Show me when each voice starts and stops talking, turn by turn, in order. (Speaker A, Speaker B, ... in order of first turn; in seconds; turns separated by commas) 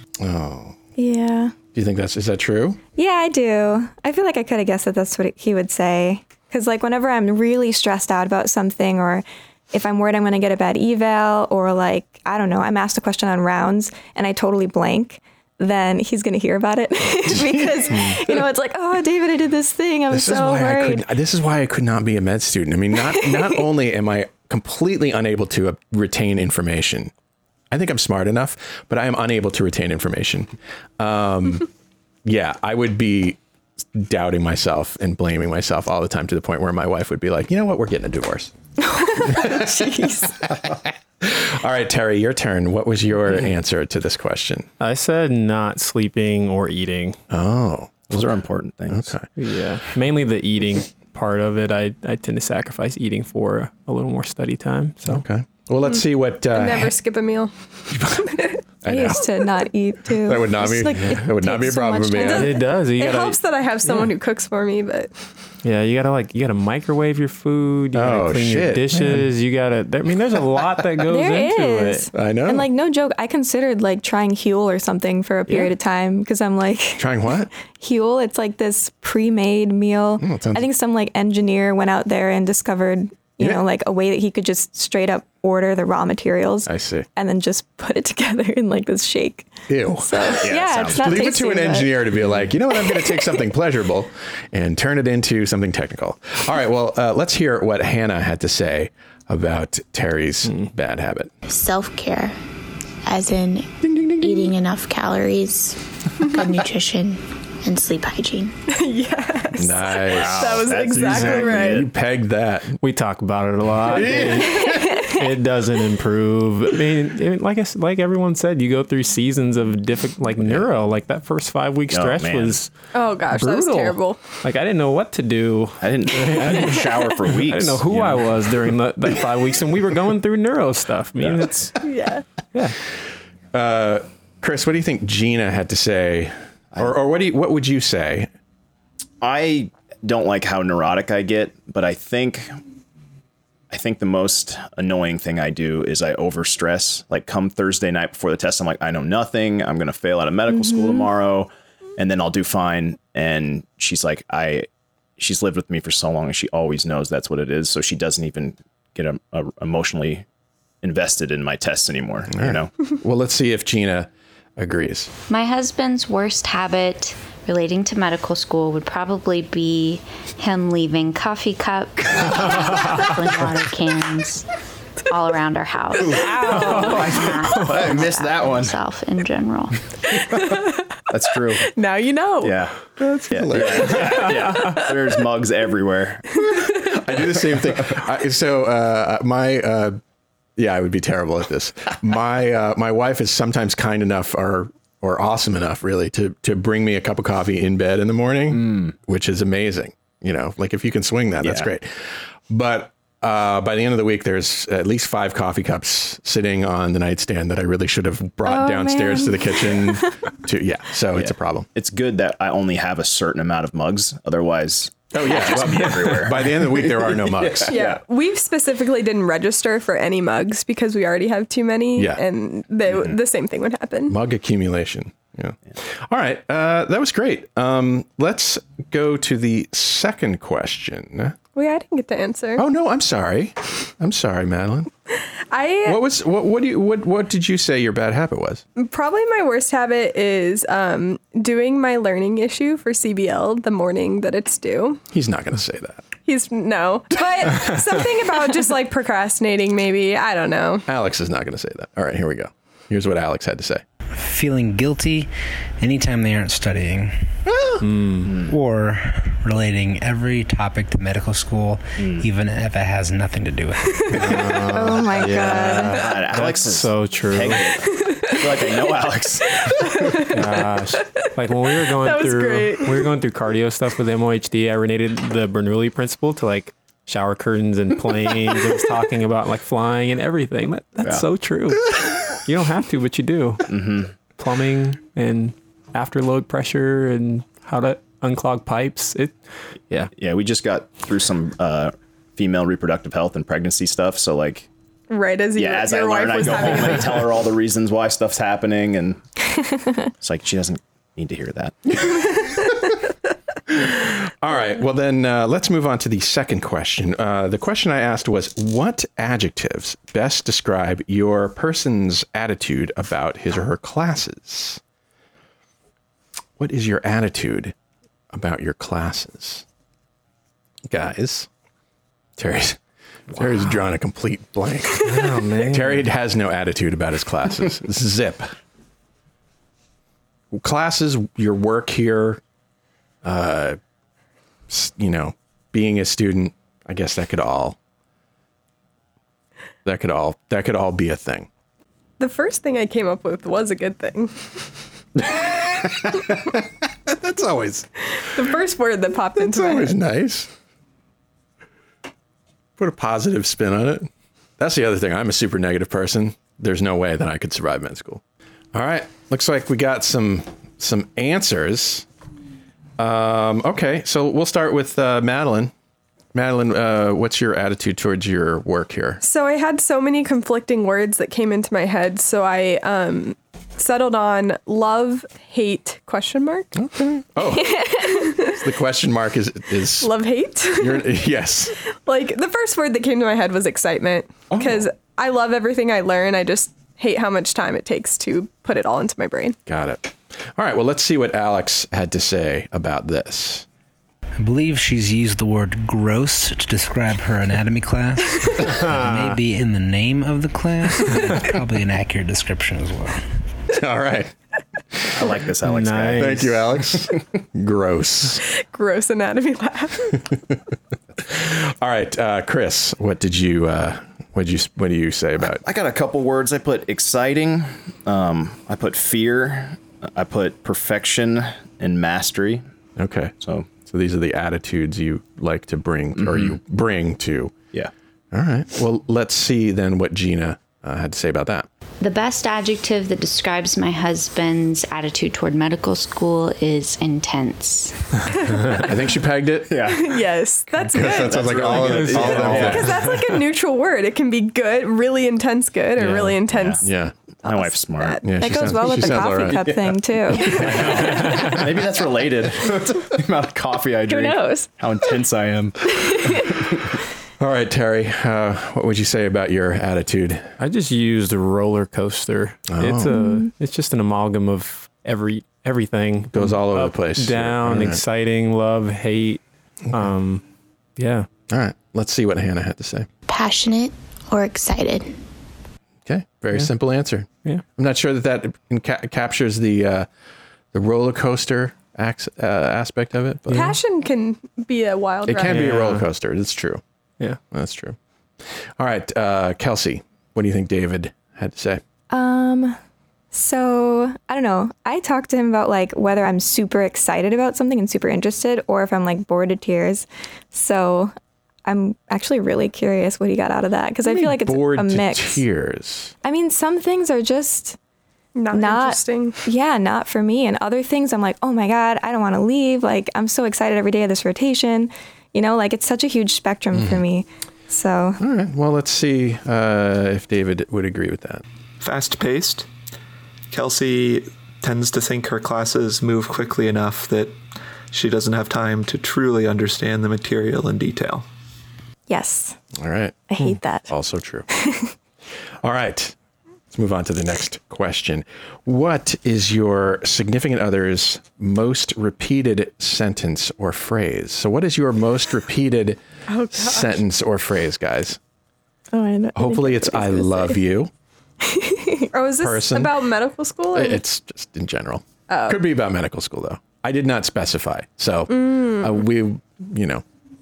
Speaker A: 0.2-0.8, Speaker B: 1.0-1.6, Speaker A: 1.7-2.8, Speaker B: 3.0-21.1, Speaker A: 17.2-18.3, Speaker A: 20.1-27.1, Speaker B: 23.2-23.6, Speaker A: 27.7-31.7, Speaker A: 32.2-33.4, Speaker A: 33.9-38.5, Speaker A: 39.2-44.7, Speaker C: 39.4-40.3, Speaker D: 44.8-47.2, Speaker A: 47.3-48.2, Speaker E: 48.1-49.1, Speaker A: 48.9-49.2, Speaker D: 49.4-55.2, Speaker A: 55.0-56.9, Speaker C: 56.5-58.6, Speaker A: 58.8-59.2, Speaker B: 58.9-62.5, Speaker A: 60.2-62.5, Speaker C: 62.1-65.1, Speaker D: 62.3-63.4, Speaker D: 65.6-72.1, Speaker A: 67.9-69.3, Speaker B: 71.1-92.0, Speaker A: 72.1-72.7, Speaker A: 77.0-77.5, Speaker A: 80.2-80.7, Speaker A: 86.7-87.0, Speaker A: 89.7-101.3, Speaker E: 90.4-91.3, Speaker B: 92.7-93.3, Speaker D: 100.4-100.7, Speaker F: 101.5-102.4, Speaker F: 103.0-108.5, Speaker A: 103.8-104.5, Speaker C: 108.7-111.9, Speaker A: 109.5-112.8, Speaker E: 110.1-111.9, Speaker D: 112.8-122.7, Speaker A: 113.9-114.9, Speaker E: 121.9-122.6, Speaker C: 122.9-124.2, Speaker D: 123.3-131.7, Speaker E: 125.8-128.4, Speaker C: 131.8-132.2, Speaker A: 133.5-138.3, Speaker E: 139.2-142.6, Speaker E: 143.7-154.7, Speaker B: 150.7-150.9, Speaker E: 155.2-160.2, Speaker E: 160.8-162.7, Speaker A: 162.3-165.1, Speaker G: 165.3-174.5, Speaker G: 175.1-179.8, Speaker E: 176.0-178.8, Speaker C: 176.1-177.1, Speaker C: 180.2-180.8, Speaker E: 181.1-181.7, Speaker C: 181.6-182.6, Speaker E: 182.4-182.7, Speaker A: 183.0-184.4, Speaker E: 183.3-186.4, Speaker A: 186.9-190.0, Speaker A: 190.6-211.7, Speaker E: 198.5-198.9, Speaker E: 201.4-201.7, Speaker B: 208.4-210.1, Speaker E: 211.1-218.0, Speaker A: 215.1-217.8, Speaker C: 217.7-224.2, Speaker A: 221.9-222.2, Speaker A: 224.1-231.4, Speaker C: 231.6-232.6, Speaker A: 232.6-234.9, Speaker C: 235.4-236.0, Speaker A: 235.8-238.6, Speaker C: 238.8-245.0, Speaker A: 245.1-246.0, Speaker C: 246.2-250.9, Speaker A: 250.9-253.8, Speaker H: 254.1-257.3, Speaker E: 257.7-258.6, Speaker D: 257.8-258.4, Speaker H: 258.5-264.2, Speaker E: 262.0-262.3, Speaker C: 263.9-264.3, Speaker D: 264.1-267.7, Speaker B: 264.7-266.1, Speaker E: 265.5-270.2, Speaker C: 268.0-268.9, Speaker C: 269.5-273.1, Speaker D: 270.3-283.8, Speaker E: 281.0-281.3, Speaker E: 283.7-284.1, Speaker D: 284.4-289.4, Speaker E: 290.1-294.7, Speaker C: 295.1-297.3, Speaker E: 295.6-299.2, Speaker E: 300.2-301.9, Speaker A: 303.7-314.8, Speaker A: 316.6-317.7, Speaker A: 318.3-319.6, Speaker A: 320.9-321.5, Speaker A: 322.4-322.8, Speaker A: 323.3-328.5, Speaker D: 325.0-326.1, Speaker A: 330.5-332.4, Speaker A: 333.2-333.8, Speaker A: 334.7-337.8, Speaker A: 339.8-341.5, Speaker C: 342.2-344.6, Speaker A: 345.3-347.9, Speaker C: 348.2-349.9, Speaker A: 349.4-350.5, Speaker A: 352.8-358.2, Speaker A: 358.7-362.1, Speaker A: 363.0-365.7, Speaker A: 366.3-369.2, Speaker C: 369.2-376.7, Speaker A: 376.7-380.1, Speaker B: 377.8-378.1, Speaker C: 378.1-378.5, Speaker C: 380.0-381.2, Speaker A: 380.7-381.7, Speaker C: 381.9-389.6, Speaker A: 389.6-393.6, Speaker H: 394.4-403.2, Speaker D: 398.8-399.4, Speaker A: 403.7-404.3, Speaker E: 405.1-406.5, Speaker D: 405.6-406.7, Speaker A: 406.1-408.4, Speaker C: 408.4-410.2, Speaker A: 411.3-415.6, Speaker E: 415.4-422.6, Speaker A: 423.0-427.6, Speaker E: 423.4-423.7, Speaker E: 426.1-426.6, Speaker A: 428.3-431.7, Speaker G: 432.0-438.0, Speaker C: 438.5-439.0, Speaker A: 438.8-439.8, Speaker E: 439.7-440.1, Speaker C: 439.8-446.8, Speaker A: 440.9-443.0, Speaker E: 441.0-442.9, Speaker D: 441.9-442.9, Speaker D: 446.0-446.3, Speaker E: 446.5-446.8, Speaker A: 446.8-447.1, Speaker E: 447.4-448.2, Speaker C: 447.4-448.2, Speaker A: 448.2-449.8, Speaker B: 448.4-451.5, Speaker E: 450.4-456.9, Speaker B: 454.1-454.7, Speaker B: 456.0-456.5, Speaker A: 457.4-460.5, Speaker D: 460.6-469.4, Speaker A: 462.7-463.1, Speaker B: 463.1-463.5, Speaker A: 466.3-468.0, Speaker D: 469.9-470.4, Speaker D: 471.0-471.3, Speaker A: 471.5-473.1, Speaker F: 473.3-475.2, Speaker A: 476.1-480.1, Speaker A: 480.7-483.7, Speaker D: 483.5-483.8, Speaker C: 483.5-485.7, Speaker A: 485.2-486.8, Speaker D: 485.4-486.1, Speaker A: 487.5-488.0, Speaker A: 488.8-491.8, Speaker B: 492.1-492.8, Speaker B: 493.3-501.1, Speaker B: 501.6-505.4, Speaker A: 504.1-506.1, Speaker B: 506.2-507.8, Speaker C: 508.4-509.4, Speaker B: 508.5-518.2, Speaker A: 516.7-517.0, Speaker A: 518.2-521.4, Speaker I: 521.8-522.7, Speaker I: 523.5-527.4, Speaker I: 527.9-531.2, Speaker B: 532.1-532.6, Speaker A: 532.8-534.5, Speaker B: 533.3-533.9, Speaker B: 534.5-534.9, Speaker A: 535.6-536.1, Speaker A: 536.7-546.0, Speaker C: 546.3-547.0, Speaker A: 546.5-548.2, Speaker B: 548.9-550.6, Speaker A: 549.3-550.9, Speaker B: 551.4-552.1, Speaker C: 552.1-554.0, Speaker A: 552.4-553.0, Speaker A: 553.7-560.0, Speaker C: 555.3-555.6, Speaker C: 558.3-559.0